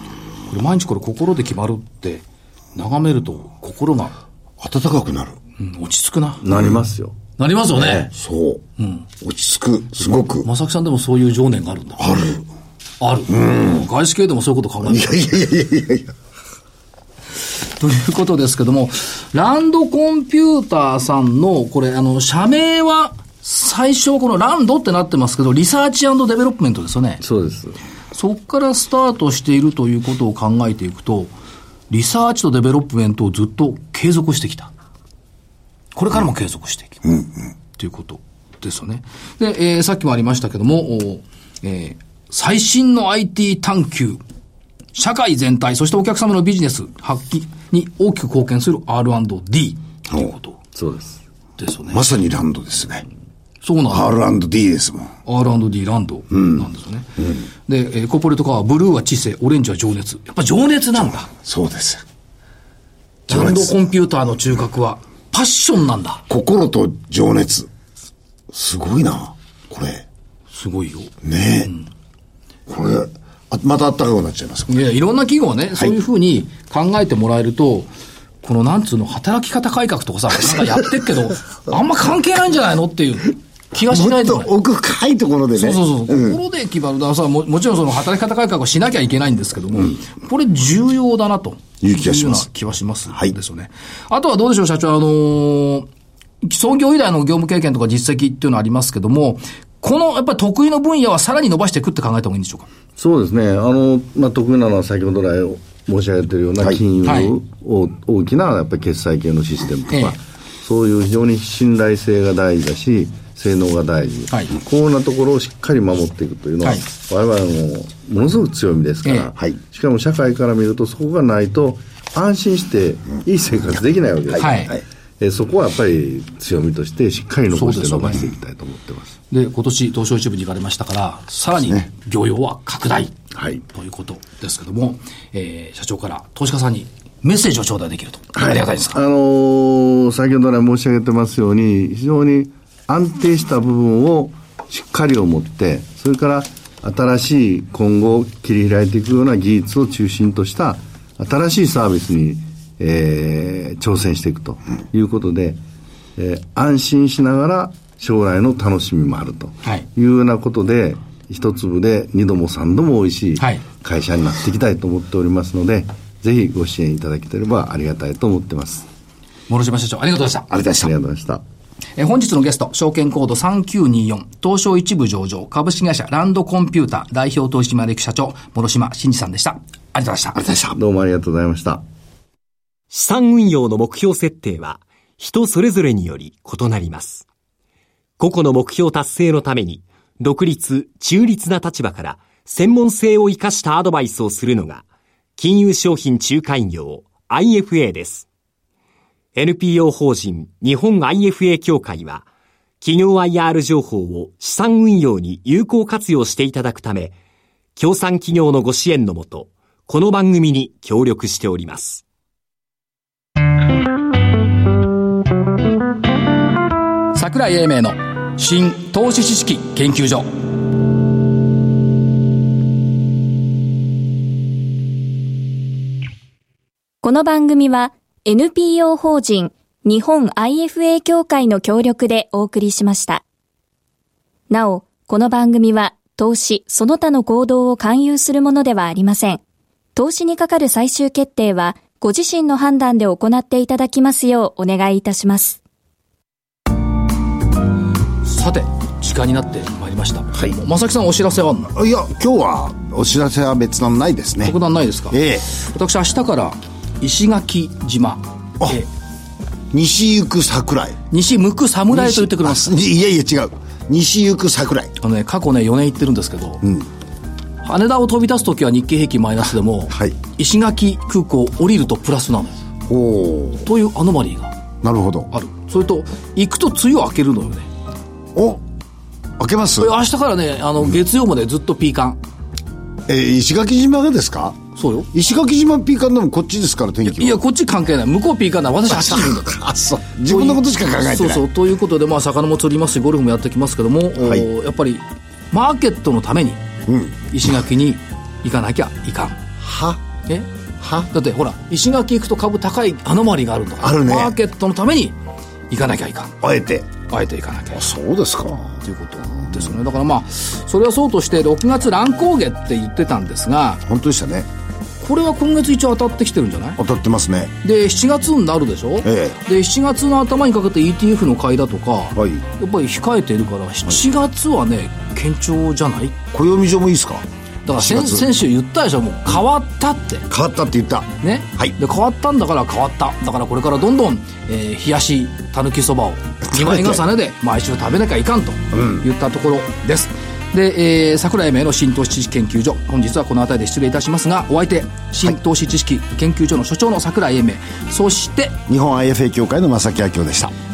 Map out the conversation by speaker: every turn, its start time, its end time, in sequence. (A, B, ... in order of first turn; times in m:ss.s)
0:00.5-0:02.2 A
0:02.8-0:04.2 A
0:04.6-0:05.4 B
0:05.6-0:06.4 A
0:06.4-0:07.2 C
0:06.5-0:06.8 B
0:07.4-0:08.1 A
0:07.7-0:08.1 C
0:08.1-0:08.6 B
0:08.8-0:09.0 A
0:09.2-0:10.5 B
0:10.4-0:12.0 A
0:12.0-0:12.5 B
0:13.0-0:15.2 A
0:13.3-0:13.9 B
0:14.9-0:16.1 B
0:17.6-0:27.2 A
0:27.2-0:27.8 C
0:28.1-0:31.3 A
0:31.9-0:34.7 A
0:36.0-0:44.2 A
0:45.0-0:50.6 A
0:50.8-0:51.2 C
0:51.6-0:52.0 A
0:51.9-0:53.1 B
0:53.6-0:54.1 A
0:53.9-0:55.2 B
0:55.3-0:57.1 A
0:56.3-0:56.6 B
0:57.7-1:01.3 A
1:01.3-1:02.0 B
1:03.3-1:06.2 A
1:03.3-1:03.7 B
1:06.3-1:07.7 B
1:08.5-1:10.1 B
1:10.5-1:11.1 A
1:11.2-1:11.7 B
1:12.7-1:14.8 B
1:14.7-1:17.9 A
1:18.4-1:24.5 A
1:23.8-1:26.4 B
1:25.6-1:35.9 A
1:31.8-1:32.5 B
1:33.1-1:33.4 B
1:36.4-1:42.7 A
1:43.0-2:09.2 C
1:47.0-1:47.3 A
1:49.9-1:50.2 A
1:59.0-1:59.3 A
2:04.3-2:04.8 B
2:04.4-2:04.8 A
2:07.5-2:08.3 A
2:09.3-2:13.1 A
2:13.3-2:13.6 C
2:13.7-2:19.0 A
2:18.4-2:35.6 C
2:36.2-2:48.9 C
2:43.4-2:43.6 A
2:49.5-2:50.5 A
2:50.5-2:50.9 B
2:50.8-2:51.4 C
2:52.0-3:00.4 A
3:00.3-3:00.8 B
3:00.8-3:01.8 C
3:02.9-3:07.3 D
3:08.2-3:14.8 D
3:15.4-3:18.3 D
3:19.4-3:22.3 D
3:22.8-3:27.2 D
3:27.8-3:32.0 D
3:37.1-3:40.3 A
3:47.0-3:53.2 E
3:54.5-3:59.4 E
4:00.0-4:05.6 E
4:08.2-4:11.7 A
4:11.8-4:14.6 B
4:14.4-4:18.9 A
4:15.1-4:15.5 B
4:19.7-4:21.0 B
4:21.1-4:22.8 A
4:21.9-4:25.0 B
4:25.0-4:26.6 A
4:26.6-4:26.9 B
4:27.6-4:32.6 A
4:29.9-4:30.2 B
4:32.9-4:33.7 B
4:33.6-4:34.6 A
4:34.8-4:35.3 B
4:35.3-4:37.7 A
4:38.4-4:38.6 B
4:39.4-4:39.9 B
4:39.8-4:42.2 A
4:43.1-4:44.6 B
4:44.8-4:45.1 A
4:45.1-4:47.4 B
4:47.1-4:49.5 A
4:48.9-4:51.4 B
4:50.2-4:56.6 A
4:54.2-4:54.5 B
4:56.9-4:57.5 B
4:57.3-4:59.4 A
4:59.6-5:00.0 B
5:00.8-5:01.1 B
5:01.0-5:05.2 A
5:03.8-5:04.4 B
5:05.7-5:06.4 A
5:06.4-5:06.9 B
5:07.0-5:07.8 A
5:07.7-5:09.8 B
5:08.8-5:13.8 A
5:13.8-5:14.5 B
5:15.0-5:16.8 A
5:16.8-5:17.5 B
5:17.6-5:26.2 A
5:19.0-5:19.4 B
5:22.2-5:22.4 B
5:26.3-5:28.3 B
5:27.7-5:30.3 A
5:30.3-5:31.8 B
5:31.2-5:48.6 A
5:36.5-5:37.0 B
5:38.7-5:39.1 B
5:48.7-5:50.5 B